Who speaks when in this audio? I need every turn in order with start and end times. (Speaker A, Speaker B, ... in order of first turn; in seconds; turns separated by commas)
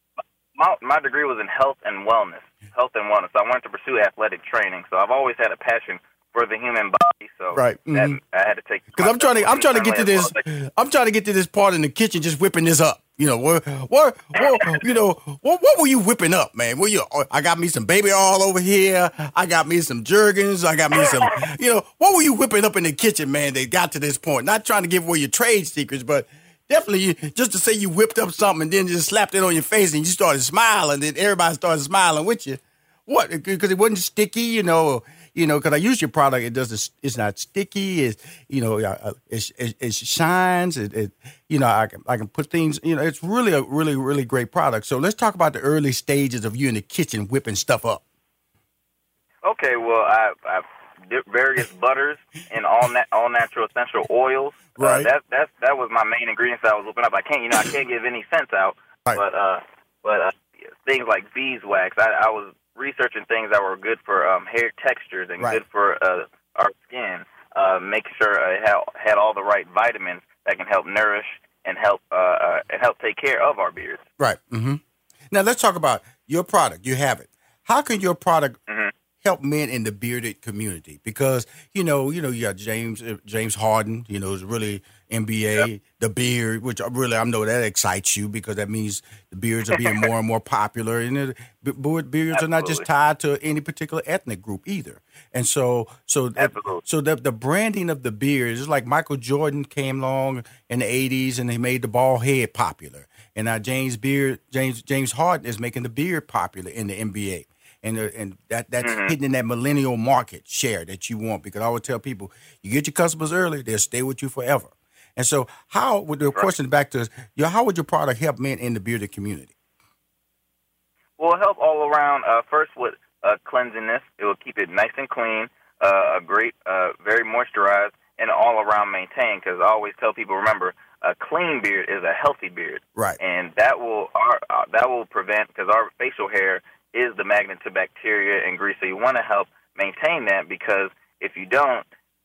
Speaker A: 0.6-10.4, Speaker B: 7.5-8.2, Speaker B: 8.9-48.0, Speaker A: 14.5-14.8, Speaker A: 20.9-21.4, Speaker A: 49.4-74.0, Speaker B: 54.8-55.1, Speaker B: 74.2-78.6, Speaker A: 78.7-78.9, Speaker B: 79.2-119.5, Speaker A: 89.7-90.1, Speaker A: 92.3-92.8, Speaker A: 96.4-96.8, Speaker A: 108.8-109.2, Speaker A: 121.2-141.8